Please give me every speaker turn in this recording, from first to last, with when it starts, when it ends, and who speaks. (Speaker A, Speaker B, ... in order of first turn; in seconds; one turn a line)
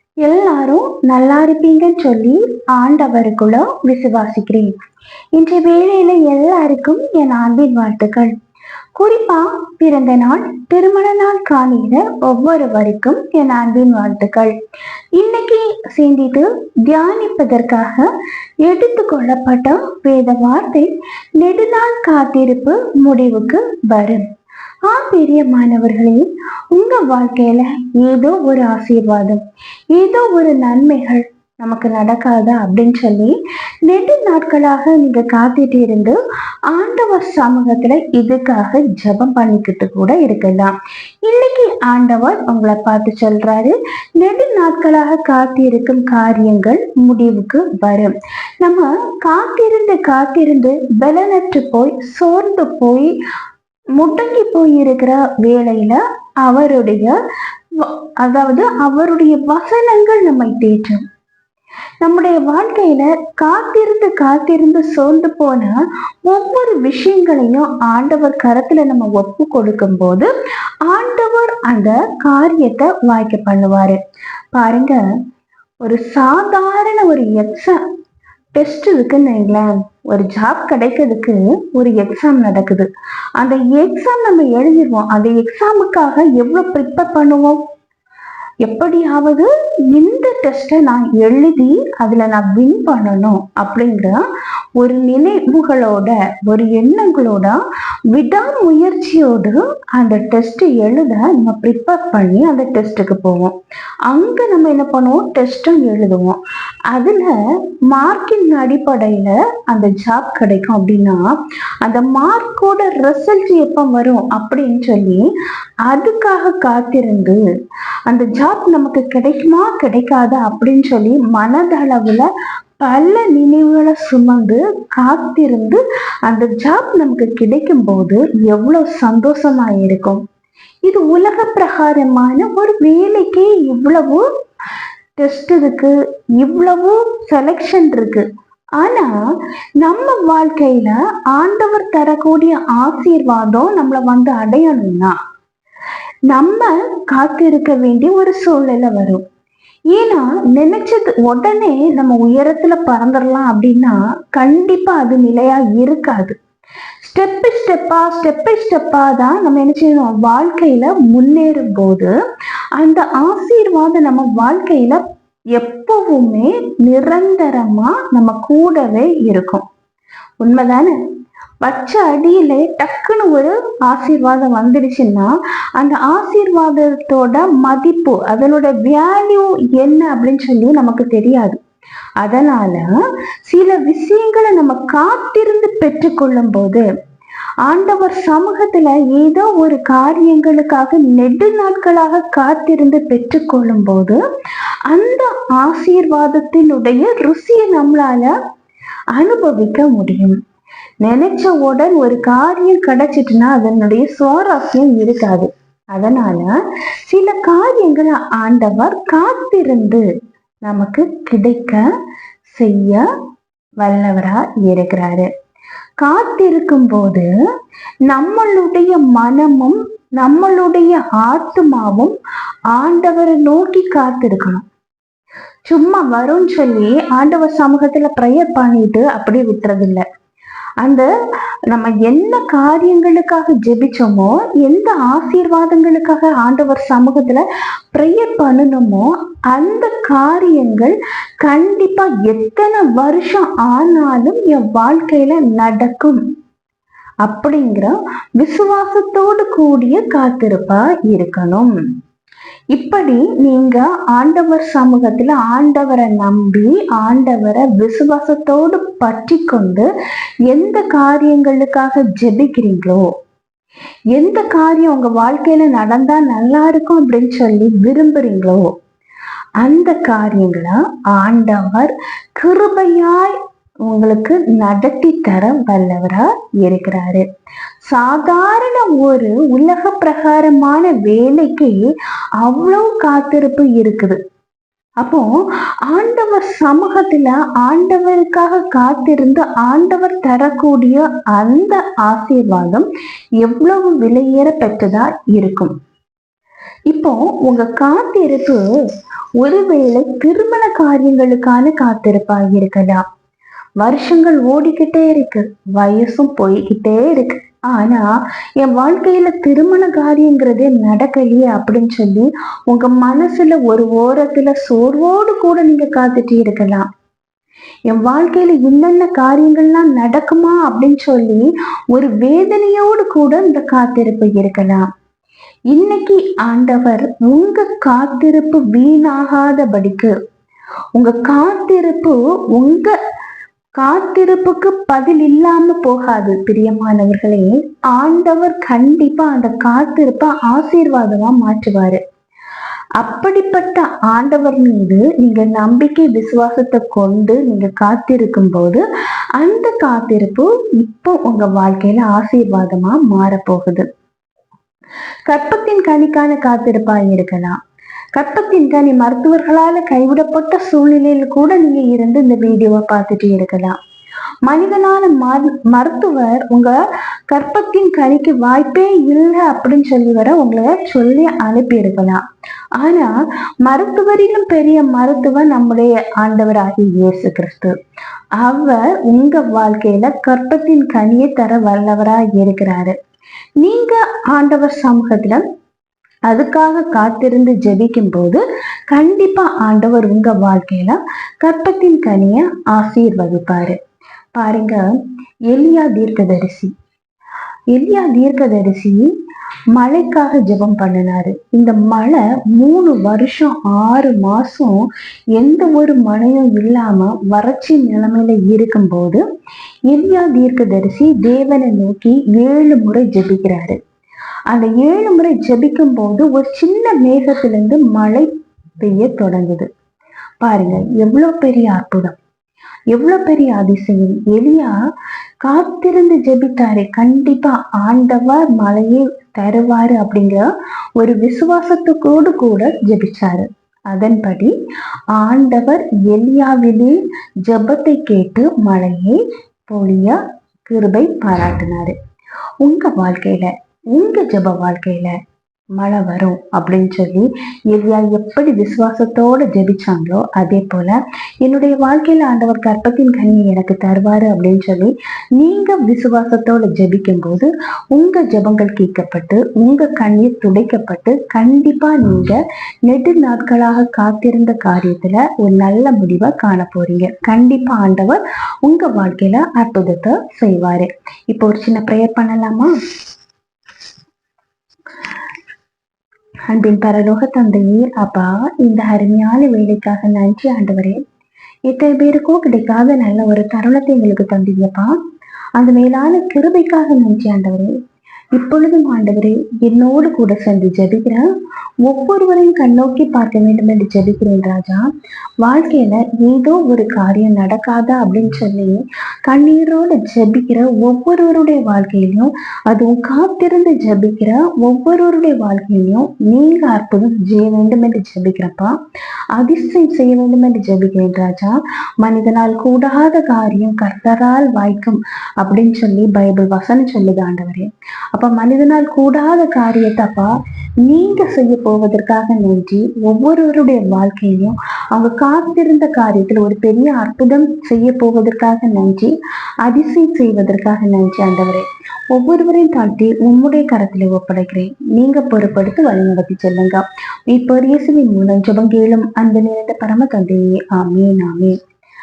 Speaker A: 0.2-4.7
Speaker A: 5.3-8.3
Speaker A: 8.9-14.5
Speaker A: 15.2-18.1
Speaker A: 18.6-24.3
Speaker A: 24.9-29.4
Speaker A: 29.9-33.3
Speaker A: 33.9-36.2
Speaker A: 36.7-40.7
Speaker A: 41.2-53.1
Speaker A: 54.0-57.1
Speaker A: 57.8-61.0
Speaker A: 62.0-70.3
Speaker A: 70.9-74.0
Speaker A: 74.5-75.0
Speaker A: 75.8-77.8
Speaker A: 78.5-82.9
Speaker A: 83.4-87.6
Speaker A: 88.6-94.2
Speaker A: 94.8-97.6
Speaker A: 98.1-103.5
Speaker A: 104.1-106.4
Speaker A: 106.9-107.4
Speaker A: 107.9-111.2
Speaker A: 111.8-115.2
Speaker A: 115.8-117.4
Speaker A: 118.1-122.3
Speaker A: 122.8-130.2
Speaker A: 130.8-134.2
Speaker A: 135.2-138.2
Speaker A: 138.8-139.1
Speaker A: 139.8-145.1
Speaker A: 146.3-149.2
Speaker A: 149.9-156.3
Speaker A: 157.0-162.1
Speaker A: 162.8-165.0
Speaker A: 165.5-169.6
Speaker A: 170.4-170.9
Speaker A: 171.6-181.6
Speaker A: 182.2-182.9
Speaker A: 183.4-186.8
Speaker A: 187.6-194.2
Speaker A: 194.9-198.3
Speaker A: 199.2-200.4
Speaker A: 201.0-206.5
Speaker A: 207.1-210.0
Speaker A: 210.6-211.8
Speaker A: 212.5-213.0
Speaker A: 213.8-215.3
Speaker A: 216.0-217.3
Speaker A: 218.1-222.1
Speaker A: 222.7-224.6
Speaker A: 225.7-230.0
Speaker A: 231.7-246.2
Speaker A: 247.2-251.7
Speaker A: 252.7-259.9
Speaker A: 260.5-263.1
Speaker A: 264.1-268.7
Speaker A: 269.6-277.2
Speaker A: 277.9-281.9
Speaker A: 282.4-284.2
Speaker A: 285.0-285.3
Speaker A: 285.9-292.9
Speaker A: 293.4-295.7
Speaker A: 296.9-298.6
Speaker A: 299.4-303.0
Speaker A: 303.8-308.1
Speaker A: 308.6-316.9
Speaker A: 317.9-324.9
Speaker A: 325.7-330.1
Speaker A: 330.9-332.9
Speaker A: 333.8-342.0
Speaker A: 343.0-348.8
Speaker A: 349.4-353.8
Speaker A: 355.3-357.6
Speaker A: 358.1-363.8
Speaker A: 364.4-366.7
Speaker A: 367.3-372.2
Speaker A: 372.8-373.1
Speaker A: 373.6-377.7
Speaker A: 378.4-382.9
Speaker A: 383.6-385.4
Speaker A: 386.3-393.8
Speaker A: 394.3-394.9
Speaker A: 395.5-396.7
Speaker A: 397.7-399.1
Speaker A: 399.7-404.8
Speaker A: 405.4-409.2
Speaker A: 409.9-413.8
Speaker A: 414.5-419.7
Speaker A: 420.4-422.2
Speaker A: 422.9-424.8
Speaker A: 425.4-430.4
Speaker A: 431.0-434.5
Speaker A: 435.1-441.9
Speaker A: 442.6-445.1
Speaker A: 445.8-472.7
Speaker A: 476.5-481.0
Speaker A: 481.7-484.9
Speaker A: 485.6-487.7
Speaker A: 488.4-491.3
Speaker A: 491.8-494.9
Speaker A: 495.4-508.7
Speaker A: 509.3-520.3
Speaker A: 520.8-529.1
Speaker A: 529.6-541.5